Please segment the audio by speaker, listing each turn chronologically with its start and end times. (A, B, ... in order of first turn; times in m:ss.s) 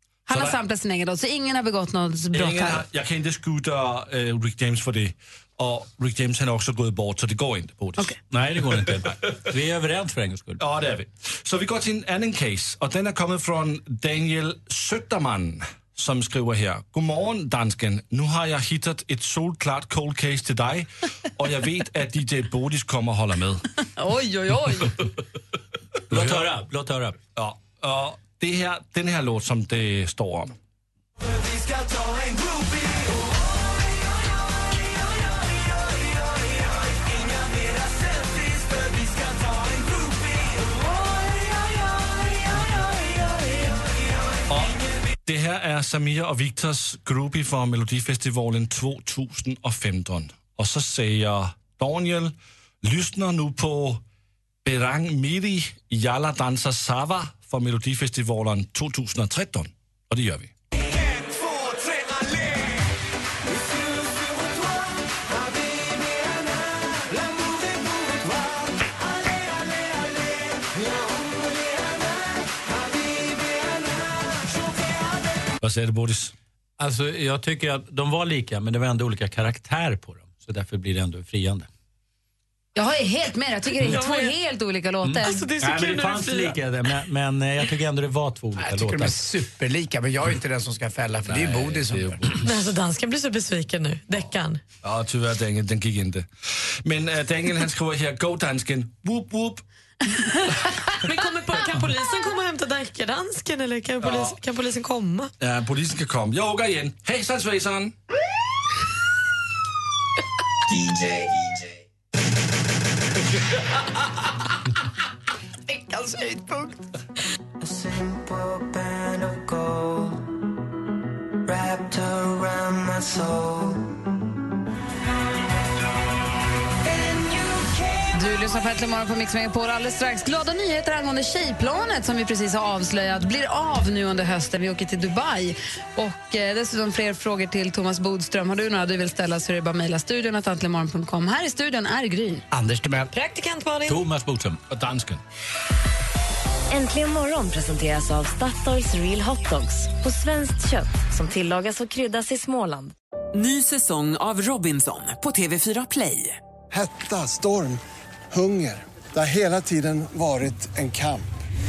0:00.3-0:02.9 A
0:00.3-0:00.6 B
0:02.3-0:09.0 B
0:08.2-0:10.6 C
0:10.6-0:23.6 B
0:24.0-0:24.9 A
0:26.1-0:26.5 B
0:26.1-0:27.2 C
0:27.4-0:30.6 B
0:31.6-0:32.6 D
0:37.2-0:42.4 D
0:43.2-0:43.9 D
0:44.5-0:54.0 B
0:54.6-1:00.5 B
1:01.1-1:02.0 D
1:03.5-1:15.3 D
1:15.6-1:16.3 B
1:16.8-1:21.7 C
1:22.8-1:25.4 A
1:23.8-1:24.4 E
1:25.0-1:29.2 C
1:25.2-1:26.6 E
1:28.6-1:32.2 F
1:31.3-1:32.5 C
1:32.4-1:34.6 E
1:34.8-1:39.6 B
1:41.0-1:45.3 E
1:44.0-1:44.3 B
1:45.4-1:47.9 B
1:50.7-1:51.6 F
1:55.7-1:56.8 F
1:57.6-2:00.3 D
2:01.4-2:03.9 D
2:06.8-2:08.4 D
2:08.1-2:22.4 A
2:22.5-2:23.1 F
2:23.1-2:24.0 E
2:23.9-2:24.6 C
2:24.7-2:25.2 B
2:26.7-2:32.9 G
2:33.3-2:36.4 H
2:36.7-2:41.3 I